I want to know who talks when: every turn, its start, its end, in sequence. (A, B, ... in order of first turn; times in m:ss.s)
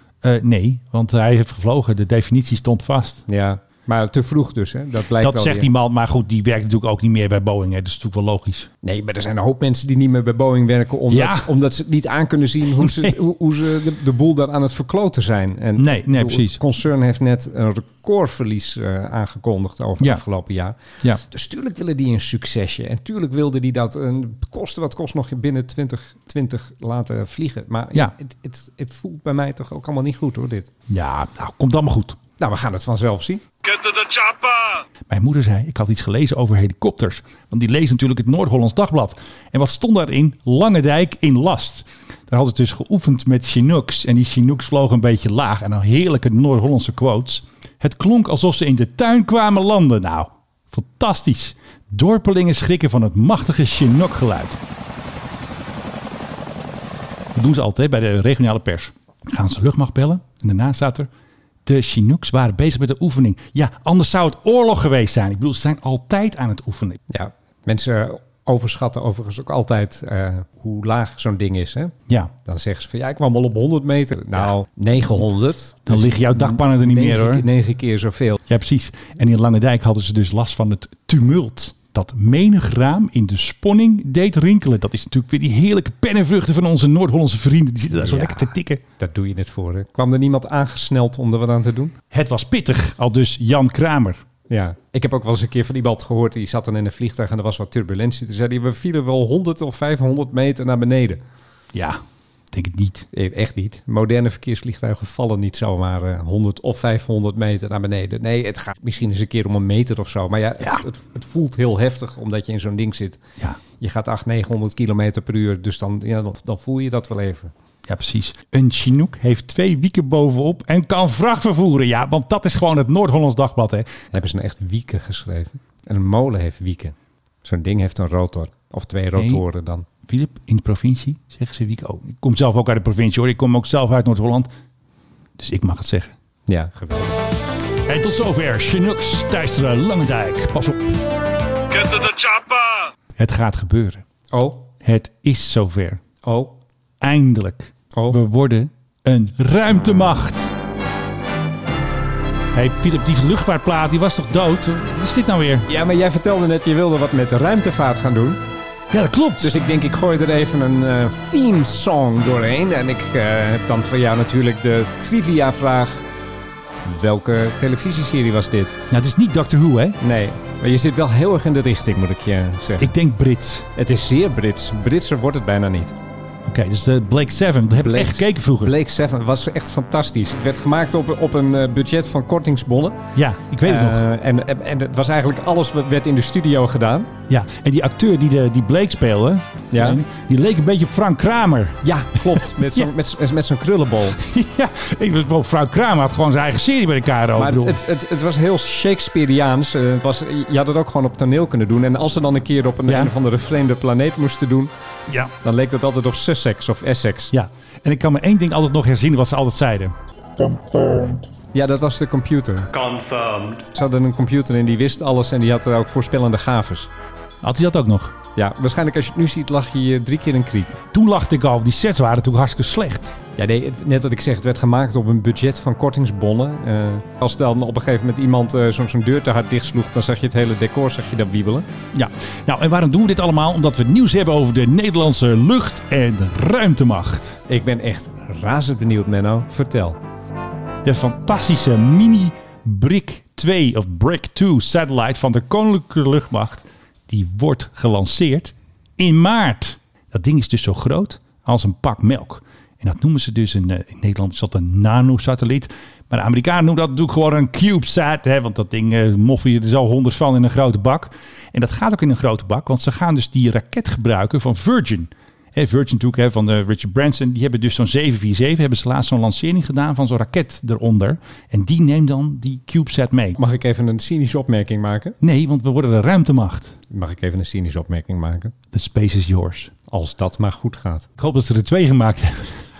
0:00.2-0:03.2 A
0:03.3-0:05.7 B
0:05.2-0:08.7 A
0:08.8-0:30.7 B
0:11.1-0:11.5 A
0:12.8-0:13.2 A
0:15.8-0:16.6 A
0:30.9-0:32.2 A
0:32.4-0:33.4 B
0:33.6-0:54.6 A
0:57.3-1:01.1 A
1:01.6-1:07.0 A
1:07.1-1:11.9 B
1:12.1-1:12.3 A
1:12.4-1:18.4 B
1:15.8-1:17.5 A
1:18.5-1:28.8 A
1:28.0-1:31.9 B
1:32.1-1:34.2 A
1:34.5-1:41.2 B
1:41.7-1:43.1 A
1:43.1-1:53.2 B
1:53.8-1:57.5 B
1:57.8-2:04.0 A
2:04.1-2:09.8 B
2:09.1-2:09.4 A
2:10.0-2:14.5 A
2:15.4-2:16.1 A
2:16.5-2:17.2 B
2:17.8-2:21.0 A
2:21.7-2:24.0 A
2:24.3-2:24.6 B
2:24.8-2:26.0 A
2:26.2-2:26.6 B
2:27.0-2:30.5 A
2:27.9-2:28.2 B
2:32.5-2:35.6 A
2:35.7-2:38.4 B
2:38.9-2:39.5 A
2:39.4-2:46.0 B
2:46.8-2:48.8 B
2:48.9-2:50.0 A
2:50.0-2:52.9 B
2:52.8-2:53.7 A
2:53.8-2:56.0 B
2:56.4-2:58.7 A
2:57.7-3:03.0 B
3:03.1-3:04.0 A
3:03.6-3:07.1 B
3:07.3-3:12.8 A
3:09.7-3:10.0 B
3:11.8-3:14.2 B
3:14.2-3:17.8 A
3:17.4-3:24.7 B
3:22.9-3:23.1 A
3:25.4-3:27.3 B
3:27.3-3:30.0 A
3:30.5-3:30.8 A
3:31.5-3:32.9 B
3:32.8-3:33.5 A
3:33.6-3:36.9 B
3:37.4-3:38.2 A
3:38.4-3:40.8 B
3:40.9-3:43.1 A
3:43.4-3:51.7 B
3:51.9-3:57.4 A
3:57.5-4:00.0 B
4:00.8-4:33.4 A
4:33.4-4:35.2 B
4:35.2-4:36.8 A
4:36.9-4:38.5 B
4:38.7-4:39.7 A
4:39.9-4:41.1 B
4:41.2-4:42.6 A